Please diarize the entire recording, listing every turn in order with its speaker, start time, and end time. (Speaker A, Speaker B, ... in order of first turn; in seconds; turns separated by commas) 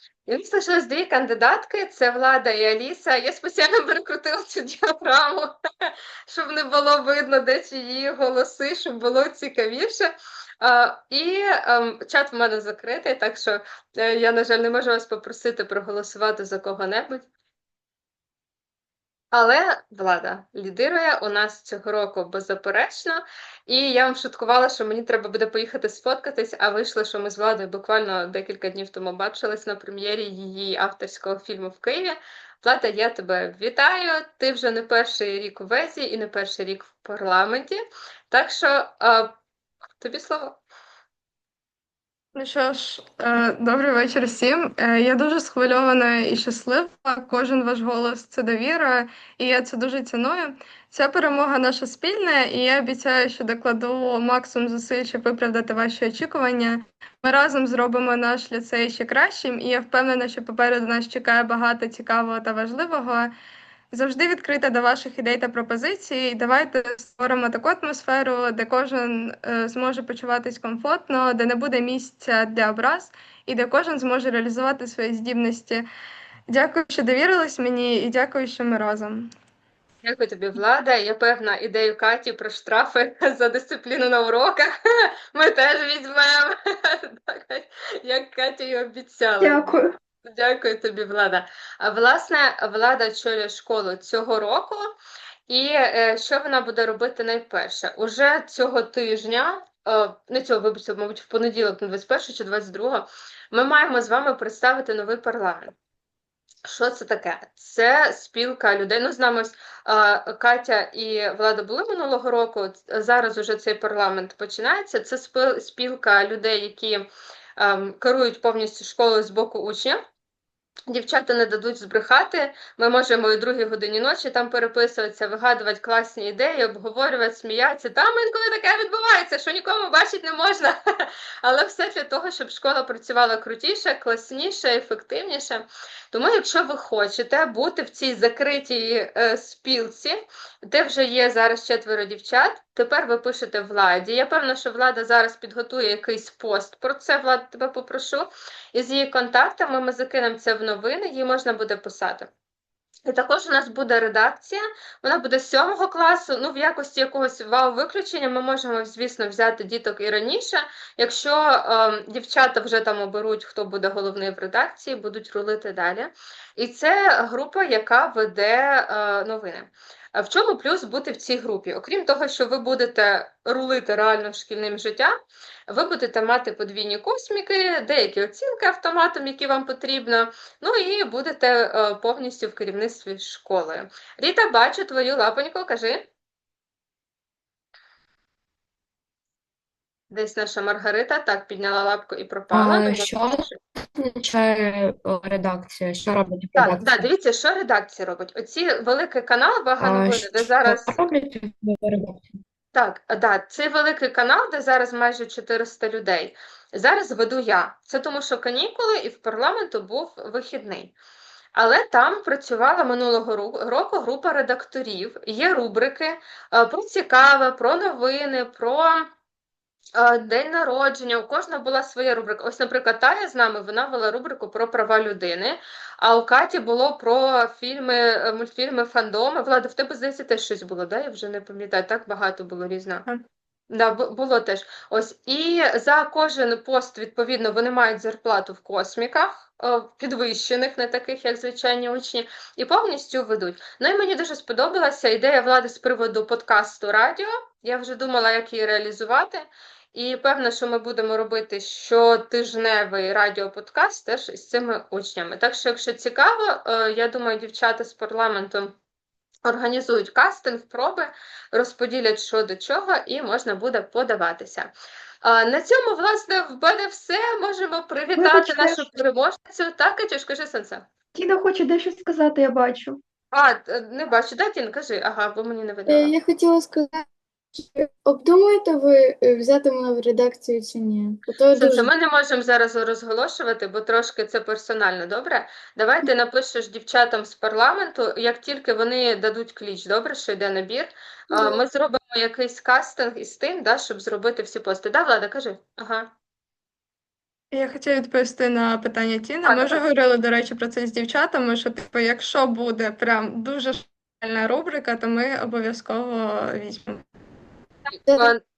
Speaker A: 0.3-17.2, Speaker A: 19.3-39.3, Speaker A: 40.0-40.6, Speaker B: 42.4-63.3, Speaker B: 63.9-75.8, Speaker B: 76.5-79.3, Speaker A: 80.0-84.7, Speaker A: 85.3-89.7, Speaker C: 89.4-89.7, Speaker A: 90.3-94.8, Speaker A: 95.5-105.7, Speaker A: 106.7-120.0, Speaker A: 120.9-152.3, Speaker A: 153.1-175.1, Speaker A: 175.7-186.1, Speaker A: 190.1-193.4, Speaker D: 192.5-197.1, Speaker A: 196.5-201.0, Speaker D: 199.8-202.3, Speaker A: 202.7-210.9, Speaker A: 211.6-219.1, Speaker A: 219.9-233.1, Speaker A: 233.7-258.7, Speaker A: 259.4-264.7, Speaker A: 265.2-270.9, Speaker C: 268.1-268.9, Speaker C: 271.1-273.0, Speaker A: 273.3-276.1, Speaker E: 275.9-281.9, Speaker A: 281.5-296.1, Speaker E: 291.3-291.6, Speaker B: 297.5-307.0, Speaker A: 299.5-299.8, Speaker A: 308.1-308.4